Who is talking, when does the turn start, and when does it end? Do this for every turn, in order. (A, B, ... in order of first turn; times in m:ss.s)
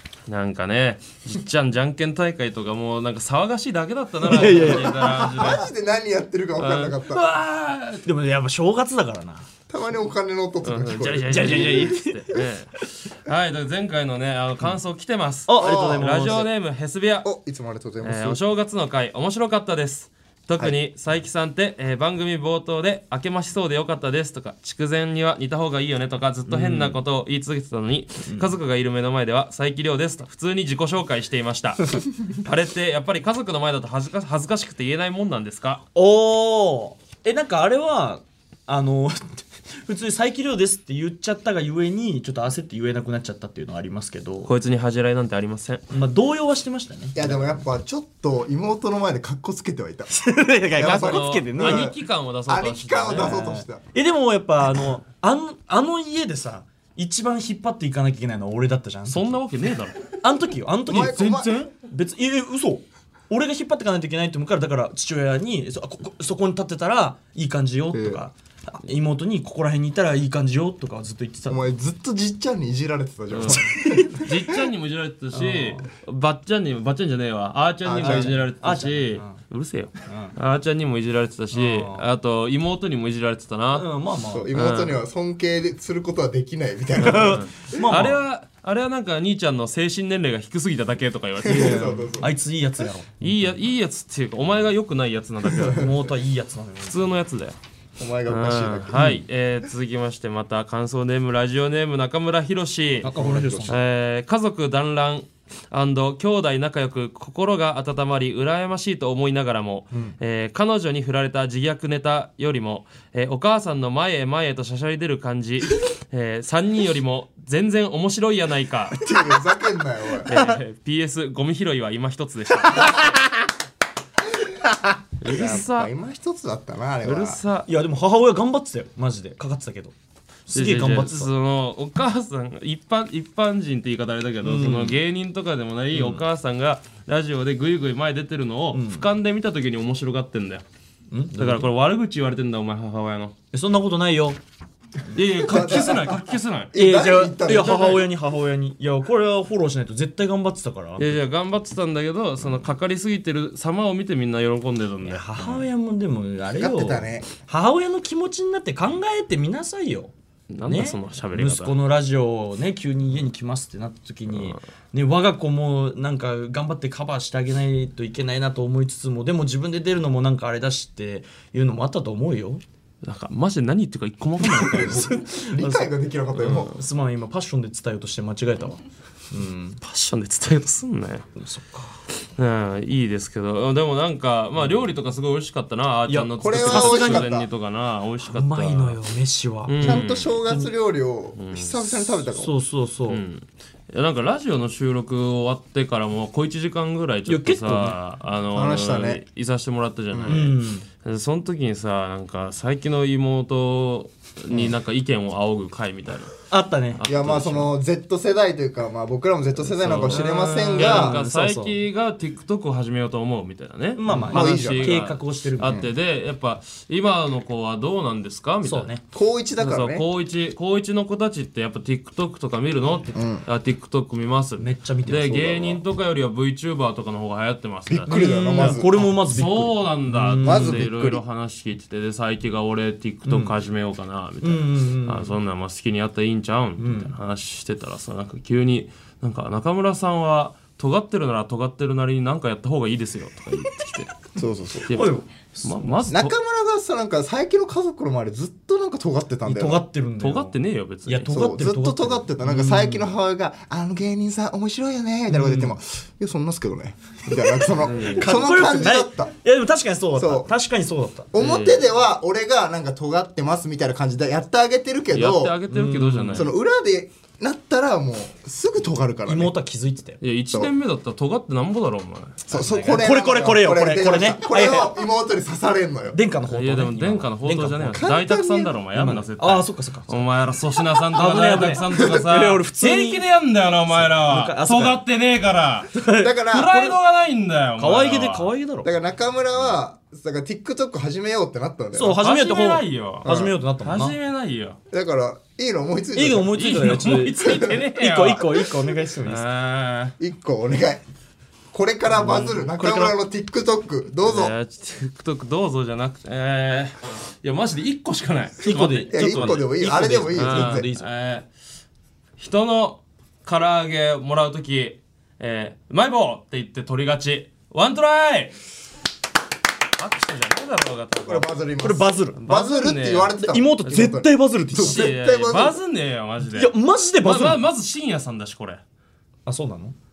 0:00.3-0:05.7 A
0:04.3-0:05.1 B
0:04.3-0:07.2 C
0:06.6-0:08.0 A
0:08.0-0:09.5 B
0:09.7-0:12.0 C
0:10.6-0:17.3 A
0:11.3-0:12.8 B
0:15.5-0:16.5 B
0:15.5-0:16.5 C
0:17.2-0:18.4 C
0:18.0-0:35.8 A
0:26.5-0:27.0 B
0:28.3-0:28.5 B
0:36.0-0:44.5 B
0:44.4-0:45.8 A
0:45.9-0:47.6 B
0:47.2-0:50.2 C
0:50.1-0:51.9 B
0:50.7-0:53.8 C
0:50.8-0:53.5 A
0:53.1-0:59.4 B
0:59.1-1:00.0 A
1:00.2-1:11.7 B
1:00.9-1:01.6 C
1:07.9-1:08.2 C
1:11.5-1:14.3 C
1:13.3-1:23.9 A
1:13.5-1:14.2 B
1:15.3-1:15.9 B
1:17.8-1:18.4 C
1:18.0-1:19.4 B
1:20.1-1:20.4 B
1:21.5-1:22.1 B
1:23.7-1:24.5 B
1:24.3-1:27.4 C
1:24.5-1:25.0 A
1:27.0-1:28.2 B
1:27.0-1:32.1 A
1:31.4-1:32.3 C
1:31.5-1:33.3 B
1:33.2-1:35.9 A
1:35.5-1:35.8 C
1:35.7-1:37.2 B
1:36.9-1:37.6 A
1:38.0-1:39.2 C
1:38.3-1:43.1 A
1:43.0-1:43.8 B
1:43.1-1:43.8 C
1:43.7-1:59.1 A
1:59.0-2:00.3 C
2:00.3-2:03.2 A
2:00.3-2:00.6 B
2:05.2-2:05.9 A
2:05.2-2:07.4 C
2:07.0-2:07.7 A
2:07.7-2:09.9 B
2:10.5-2:11.3 B
2:10.5-2:20.6 A
2:14.4-2:15.0 B
2:15.9-2:16.2 B
2:18.7-2:19.1 B
2:21.1-2:21.7 B
2:21.4-2:23.4 A
2:23.5-2:24.4 B
2:25.1-2:26.7 A
2:25.4-2:28.1 C
2:25.5-2:25.8 B
2:26.7-2:31.2 B
2:27.6-2:27.9 A
2:31.0-2:35.7 A
2:35.0-2:40.1 B
2:36.6-2:37.3 C
2:40.5-2:41.8 A
2:40.7-2:52.6 B
2:53.0-2:55.2 A
2:54.5-2:55.8 B
2:54.6-2:56.7 C
2:56.4-2:56.7 A
2:56.7-2:58.8 B
2:59.3-2:59.8 B
2:59.8-3:01.3 A
3:01.4-3:02.0 B
3:02.4-3:09.0 A
3:06.1-3:07.3 B
3:06.4-3:07.5 C
3:08.2-3:10.7 B
3:09.7-3:10.4 A
3:09.8-3:12.5 C
3:11.4-3:12.2 A
3:12.4-3:13.2 B
3:13.1-3:26.3 A
3:17.3-3:18.0 B
3:18.5-3:19.2 C
3:20.1-3:20.4 C
3:20.3-3:20.9 B
3:26.5-3:27.0 B
3:26.9-3:27.8 A
3:27.1-3:31.2 C
3:29.7-3:39.0 A
3:30.0-3:31.8 B
3:34.0-3:35.9 B
3:34.1-3:35.0 C
3:38.6-3:39.0 B
3:39.1-3:40.0 C
3:39.6-4:04.2 A
3:43.1-3:43.4 C
3:44.6-3:45.8 B
3:47.9-3:48.9 C
3:48.1-3:51.2 B
3:50.4-3:51.1 C
3:53.2-3:53.6 B
3:54.4-3:55.3 B
3:56.8-3:57.1 B
4:04.4-4:04.9 C
4:04.9-4:06.4 A
4:04.9-4:06.1 B
4:06.1-4:09.8 C
4:09.4-4:13.1 B
4:10.2-4:11.6 A
4:11.3-4:19.3 C
4:15.3-4:15.8 B
4:17.8-4:18.2 A
4:18.0-4:21.3 B
4:20.2-4:20.5 C
4:21.3-4:25.6 C
4:21.4-4:21.8 A
4:25.1-4:26.5 A
4:25.7-4:26.5 B
4:26.3-4:29.5 C
4:29.3-4:30.2 B
4:30.2-4:32.4 A
4:32.5-4:36.2 C
4:32.5-4:35.0 B
4:36.1-4:38.0 B
4:36.5-4:48.5 A
4:38.0-4:38.7 C
4:38.9-4:40.3 B
4:41.1-4:43.2 B
4:41.9-4:42.3 C
4:43.9-4:45.0 B
4:45.9-4:46.4 B
4:46.1-4:47.0 C
4:47.8-4:48.9 B
4:48.8-4:52.2 C
4:51.9-4:54.2 B
4:52.2-4:54.8 A
4:53.3-4:53.5 C
4:54.9-4:56.6 C
4:56.1-4:59.4 B
4:56.5-4:58.7 A
4:59.2-5:00.2 A
5:00.2-5:01.0 C
5:01.7-5:04.5 C
5:02.2-5:03.2 B
5:04.2-5:11.5 A
5:08.6-5:11.1 B
5:09.1-5:10.9 C
5:12.4-5:18.6 A
5:20.0-5:21.5 A
5:21.2-5:25.8 C
5:21.8-5:22.4 B
5:22.4-5:24.0 A
5:23.4-5:25.1 B
5:24.8-5:28.8 A
5:26.5-5:27.6 B
5:29.5-5:30.0 B